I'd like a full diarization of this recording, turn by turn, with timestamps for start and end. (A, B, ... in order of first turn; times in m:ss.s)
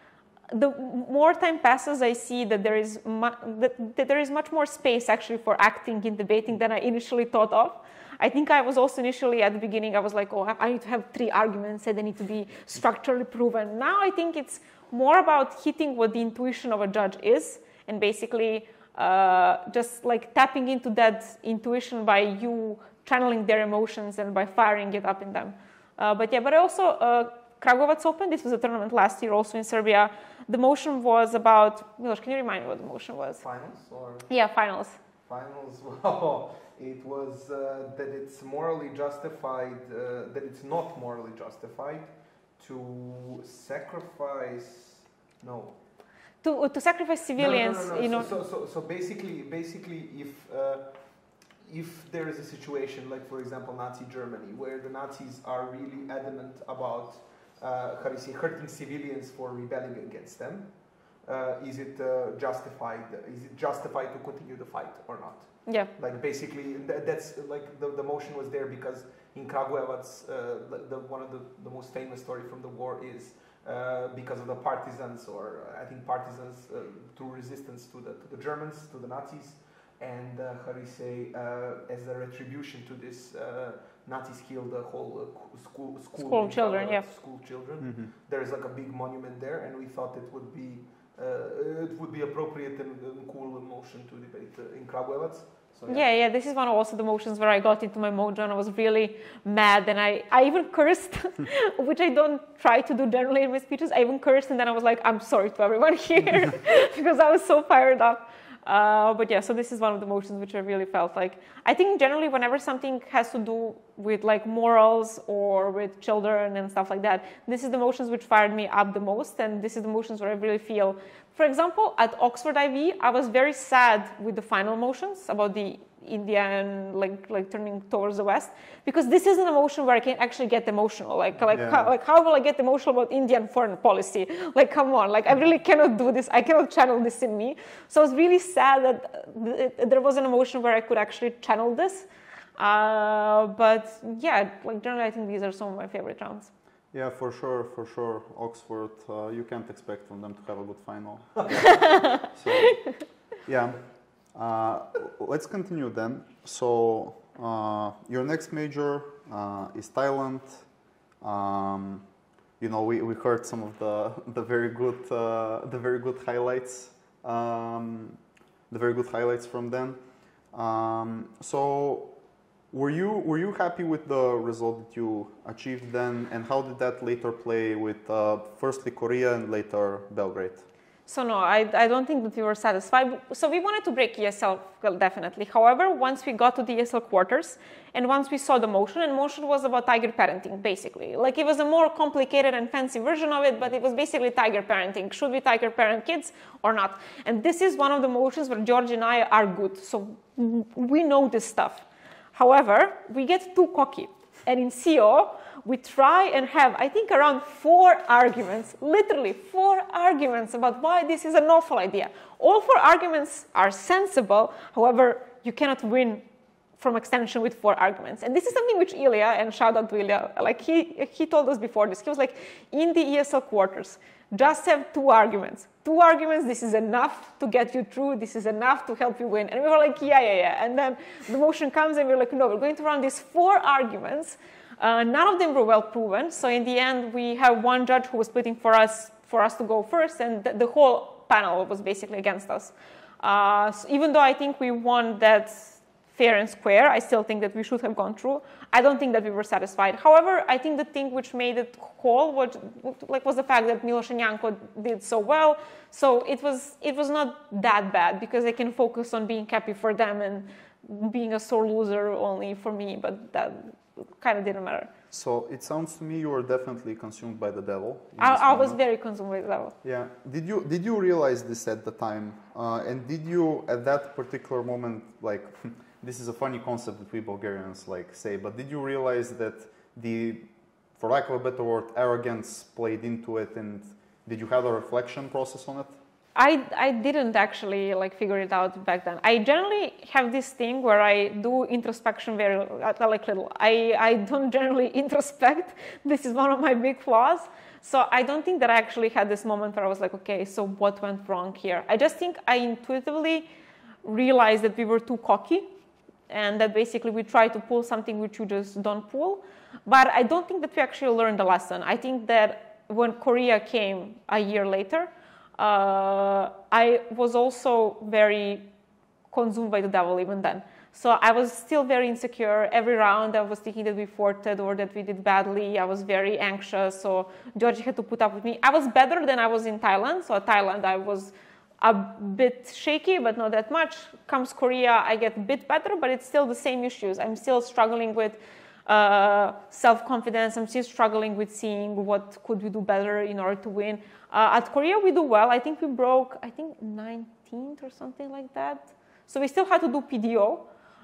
0:00.5-0:33.4 A
0:33.4-0:34.3 B
0:34.3-0:35.0 A
0:35.3-0:45.8 B
0:46.4-0:48.3 A
0:47.4-0:50.9 B
0:51.6-1:00.7 B
1:01.2-1:36.1 B
1:26.2-1:27.0 A
1:27.8-1:28.1 C
1:35.9-2:26.5 A
2:11.5-2:11.9 C
2:26.9-2:32.8 C
2:31.8-2:32.2 A
2:33.4-2:33.8 C
2:34.3-2:40.6 C
2:41.2-2:42.0 C
2:42.6-2:48.2 C
2:48.7-2:50.0 C
2:50.5-2:52.1 C
2:52.7-3:00.6 C
3:01.1-3:36.3 A
3:36.8-4:24.9 A
4:25.1-4:28.8 C
4:28.2-4:29.8 A
4:29.8-4:46.0 C
4:46.4-5:03.5 A
5:04.0-5:05.7 A
5:06.3-5:18.7 A
5:19.3-5:50.7 A